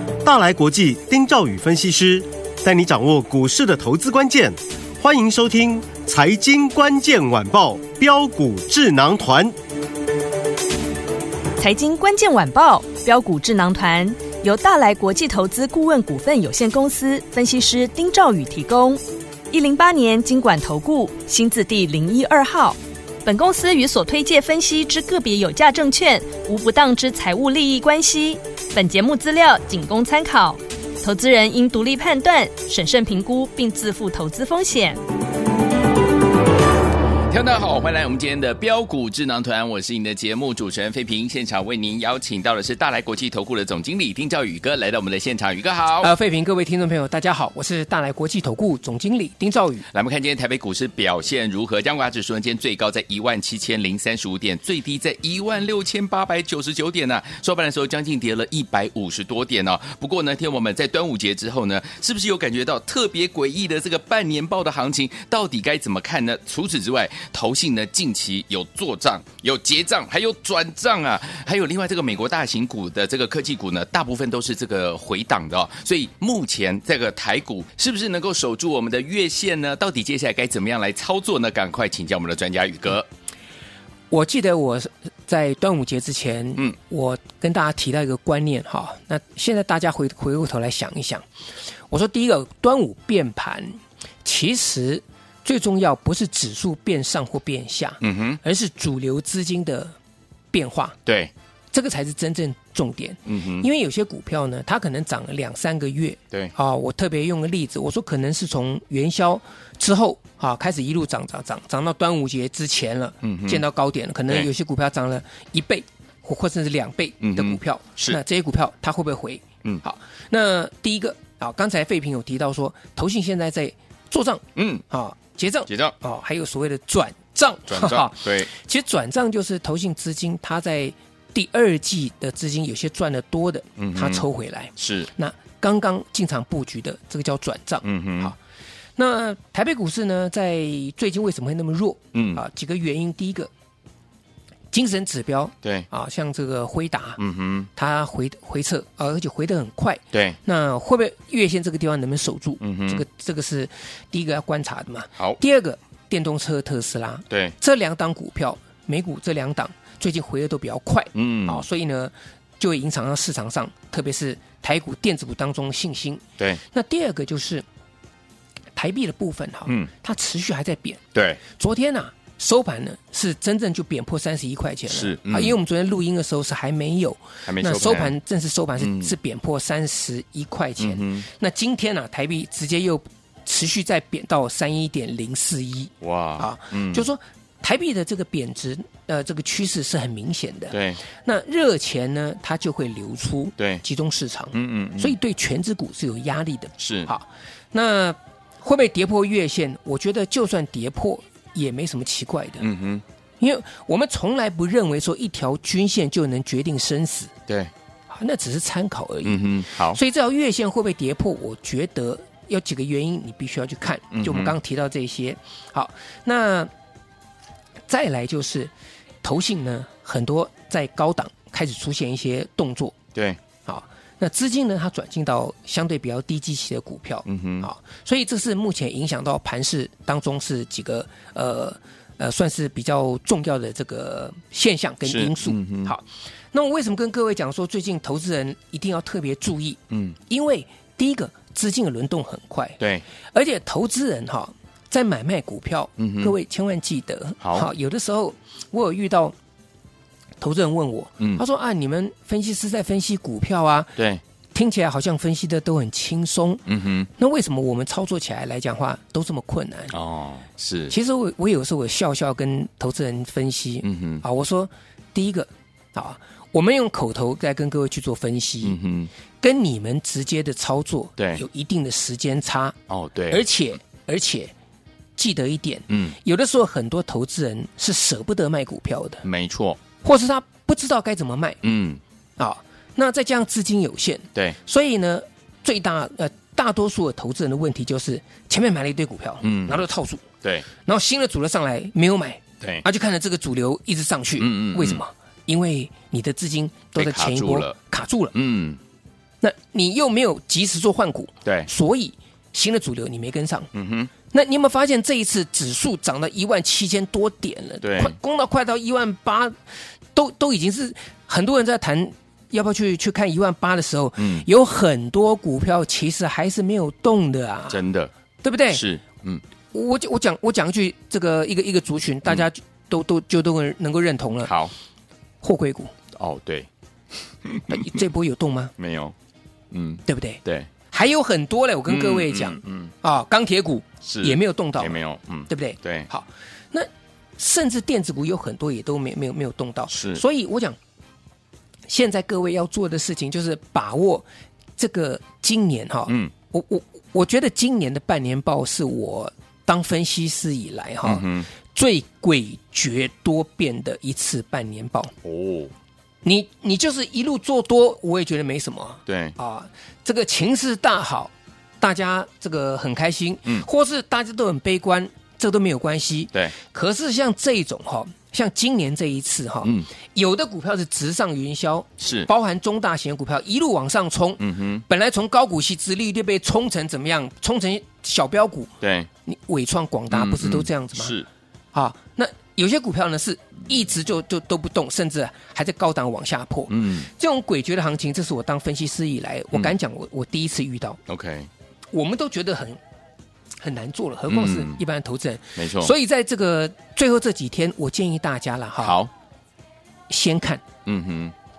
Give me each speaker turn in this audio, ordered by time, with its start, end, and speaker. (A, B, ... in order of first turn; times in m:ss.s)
0:00.2-0:09.5 A
0:11.6-0:35.0 B
0:37.3-0:46.1 C
0:46.0-0:49.8 D
0:49.9-1:23.1 C
1:24.1-1:31.2 D
1:31.9-1:39.9 D
1:38.0-1:38.4 C
1:40.5-1:41.0 D
1:41.0-1:41.3 C
1:41.7-2:18.4 D
1:43.2-1:43.6 C
1:53.2-1:53.6 C
1:57.2-1:58.2 C
2:04.5-2:04.8 C
2:05.7-2:05.9 C
2:07.7-2:08.5 C
2:13.8-2:14.2 C
2:14.8-2:15.1 C
2:17.8-2:18.3 C
2:19.0-2:23.5 D
2:22.1-2:22.4 C
2:24.7-2:27.2 D
2:27.2-2:27.7 C
2:27.7-2:47.6 D
2:30.1-2:30.4 C
2:32.6-2:33.0 C
2:41.1-2:41.6 C
2:48.8-3:22.7 D
2:51.1-2:51.4 C
2:54.9-2:55.6 C
2:57.4-2:58.1 C
2:58.8-2:59.1 C
3:00.8-3:01.2 C
3:06.0-3:07.0 C
3:10.7-3:11.0 C
3:14.5-3:15.1 C
3:16.8-3:17.1 C
3:22.6-3:23.0 C
3:23.4-3:27.3 D
3:28.1-3:36.7 D
3:29.2-3:30.0 C
3:34.1-3:34.5 C
3:37.9-3:38.7 D
3:39.2-3:43.0 D
3:43.6-4:02.8 D
3:47.2-3:47.7 C
3:55.0-3:55.9 C
3:59.9-4:00.2 C
4:02.8-4:03.0 C
4:03.3-4:09.3 D
4:06.0-4:06.3 C
4:07.4-4:07.7 C
4:10.4-4:14.0 D
4:14.5-4:16.6 D
4:16.7-4:17.1 C
4:17.2-4:19.9 D
4:19.9-4:20.9 C
4:20.9-4:28.8 D
4:23.8-4:24.2 C
4:28.6-4:29.1 C
4:29.4-4:32.8 D
4:31.2-4:31.4 C
4:32.9-4:33.4 C
4:33.3-4:34.5 D
4:35.2-4:39.2 D
4:35.9-4:36.1 C
4:39.2-4:39.8 C
4:40.0-4:41.6 D
4:41.6-4:42.0 C
4:42.4-4:50.2 D
4:49.4-4:49.8 C
4:50.8-4:58.3 D
4:54.4-4:55.0 C
4:56.9-4:57.7 C
4:58.3-4:58.8 C
4:59.4-5:03.7 D
5:03.7-5:04.1 C
5:04.3-5:09.6 D
5:07.8-5:08.2 C
5:10.1-5:17.8 D
5:14.2-5:14.4 C
5:17.7-5:18.1 C
5:18.4-5:18.8 D
5:18.7-5:19.4 C
5:19.7-5:24.5 D
5:24.4-5:24.7 C
5:25.4-5:25.9 D
5:26.2-5:26.7 C
5:27.4-5:27.9 C
5:27.7-5:28.7 D
5:28.8-5:29.1 C
5:29.7-5:30.7 C
5:30.1-5:40.8 D
5:31.9-5:32.9 C
5:34.0-5:36.1 C
5:39.9-5:40.2 C
5:41.9-5:44.2 D
5:44.8-5:55.1 D
5:51.0-5:51.5 C
5:55.2-5:55.7 C
5:56.2-6:21.2 D
5:59.1-5:59.3 C
6:12.0-6:12.3 C
6:14.4-6:14.8 C
6:18.8-6:19.1 C
6:20.1-6:21.3 C
6:21.7-6:31.0 D
6:26.7-6:27.1 C
6:31.1-6:31.5 C
6:31.9-6:32.8 D
6:33.6-6:39.0 D
6:34.3-6:34.8 C
6:35.6-6:35.9 C
6:38.8-6:39.1 C
6:40.1-6:40.6 D
6:40.8-6:41.3 C